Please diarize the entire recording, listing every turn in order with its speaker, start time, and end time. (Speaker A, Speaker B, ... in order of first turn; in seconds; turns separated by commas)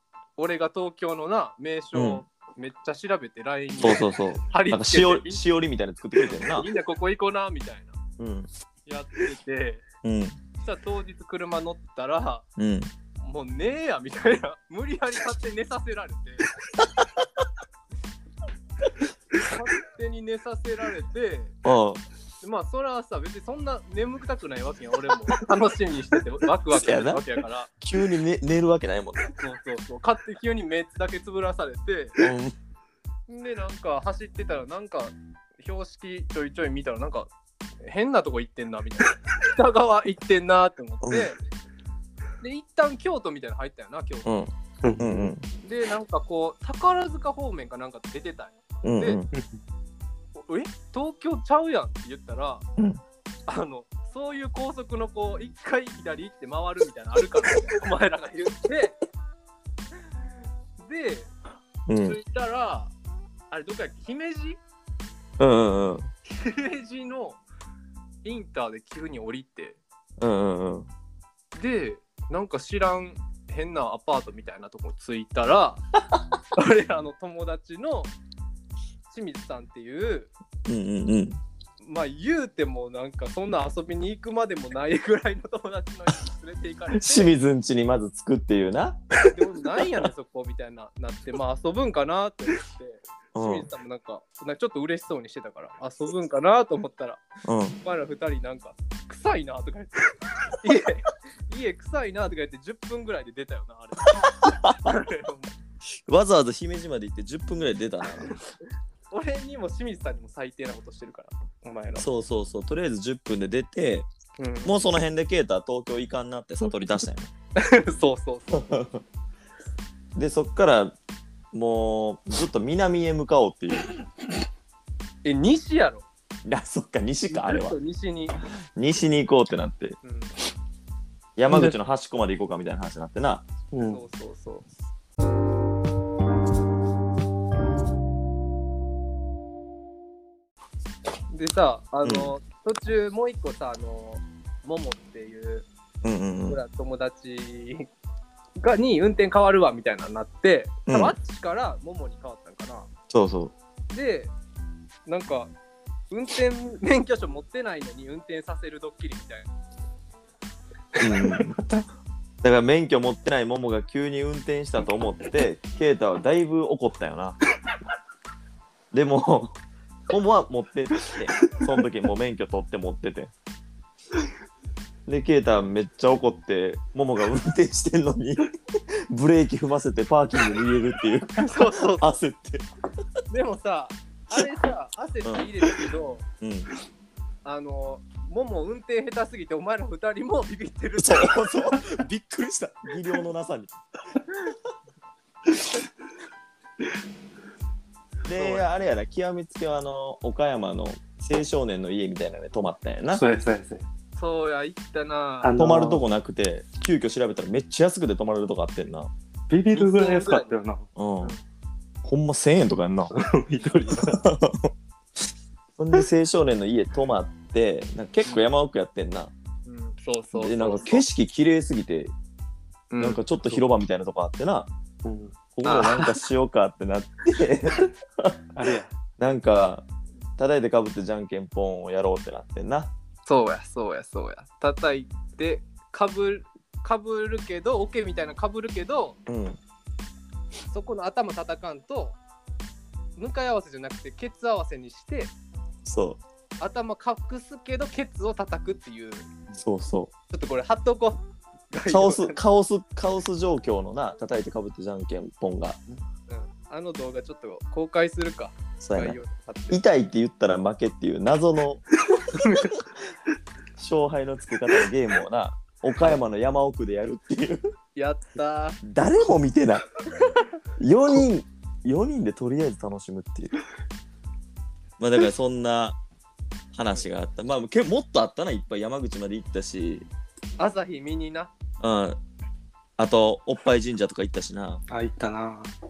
Speaker A: 0.4-5.4, Speaker B: 1.9-2.2, Speaker B: 3.8-6.7, Speaker A: 6.2-8.0, Speaker B: 8.2-8.5, Speaker A: 8.9-9.8, Speaker B: 10.0-10.4, Speaker A: 10.6-12.4, Speaker B: 12.6-12.9, Speaker A: 13.2-16.5, Speaker A: 19.3-21.5, Speaker B: 21.6-22.0, Speaker A: 22.4-27.7, Speaker B: 26.7-27.2, Speaker B: 27.8-29.3, Speaker A: 29.4-32.3, Speaker B: 32.2-32.5, Speaker A: 33.3-37.3, Speaker A: 37.8-41.4, Speaker A: 42.4-44.4, Speaker B: 44.2-45.4, Speaker C: 44.8-45.3, Speaker A: 45.6-49.2, Speaker B: 48.8-49.3, Speaker C: 49.3-49.6, Speaker A: 50.4-52.6, Speaker A: 53.5-59.0, Speaker A: 60.8-61.3, Speaker B: 61.9-62.2, Speaker A: 62.0-62.9, Speaker A: 63.5-64.6, Speaker B: 65.4-66.1, Speaker A: 66.3-67.4, Speaker A: 68.2-69.8, Speaker B: 70.2-70.9, Speaker A: 71.5-75.8, Speaker A: 76.5-78.1, Speaker A: 79.1-80.3, Speaker B: 80.7-81.4, Speaker A: 81.8-87.3, Speaker B: 86.9-89.0, Speaker A: 89.3-97.2, Speaker B: 93.3-93.7, Speaker B: 97.5-97.8, Speaker A: 97.8-105.5, Speaker B: 104.4-104.7, Speaker B: 106.1-108.3, Speaker A: 109.1-112.1, Speaker B: 112.0-114.1, Speaker A: 114.4-114.7, Speaker B: 114.6-117.3, Speaker A: 117.6-118.8, Speaker B: 118.7-119.0, Speaker B: 120.2-121.0, Speaker B: 121.5-123.9, Speaker A: 125.2-126.0, Speaker B: 126.5-127.8, Speaker A: 127.3-128.4, Speaker B: 128.8-130.0, Speaker A: 130.0-130.3, Speaker B: 131.4-133.5, Speaker C: 131.5-131.8, Speaker C: 133.7-134.0, Speaker A: 133.8-134.7, Speaker A: 141.3-145.7, Speaker B: 142.0-142.3, Speaker B: 146.0-146.6, Speaker A: 146.5-147.9, Speaker A: 148.6-152.9, Speaker B: 150.9-151.2, Speaker B: 153.1-153.6, Speaker A: 153.9-154.3, Speaker A: 155.1-155.5, Speaker A: 156.1-159.5, Speaker B: 161.0-161.7, Speaker C: 161.0-161.5, Speaker B: 162.4-167.4, Speaker B: 168.9-169.6, Speaker B: 170.1-173.3, Speaker B: 175.1-178.5, Speaker B: 179.1-182.7, Speaker A: 181.4-182.2, Speaker A: 183.3-186.2, Speaker B: 186.4-186.7, Speaker A: 187.4-191.5, Speaker B: 191.0-193.7, Speaker B: 198.3-203.2, Speaker A: 198.4-198.6, Speaker C: 203.1-203.8, Speaker A: 204.2-205.6, Speaker C: 205.4-206.0, Speaker B: 205.6-209.1, Speaker C: 209.5-210.9, Speaker A: 209.7-210.5, Speaker B: 211.0-211.3, Speaker B: 212.0-213.1, Speaker C: 213.1-214.2, Speaker B: 214.1-214.7, Speaker B: 215.8-219.3, Speaker A: 219.7-221.1, Speaker B: 220.4-222.1, Speaker A: 222.9-223.2, Speaker B: 223.0-224.7, Speaker C: 225.0-225.3, Speaker B: 225.6-228.4, Speaker A: 225.7-225.9, Speaker C: 228.6-228.9, Speaker B: 229.2-229.9, Speaker B: 230.4-232.9, Speaker A: 233.2-239.2, Speaker B: 239.3-239.6, Speaker A: 240.7-242.2, Speaker A: 243.2-245.3, Speaker B: 245.8-246.2, Speaker A: 246.6-249.3, Speaker B: 249.6-250.1, Speaker A: 250.3-252.4, Speaker B: 251.9-255.8, Speaker A: 256.3-259.8, Speaker B: 258.8-259.2, Speaker B: 259.7-261.9, Speaker A: 262.4-262.7, Speaker B: 263.8-267.6, Speaker A: 267.9-268.8, Speaker B: 268.9-269.9, Speaker B: 270.8-273.6, Speaker B: 275.0-276.0, Speaker B: 276.7-280.1, Speaker A: 280.6-281.5, Speaker B: 281.8-282.2, Speaker B: 283.0-284.8, Speaker C: 284.9-285.7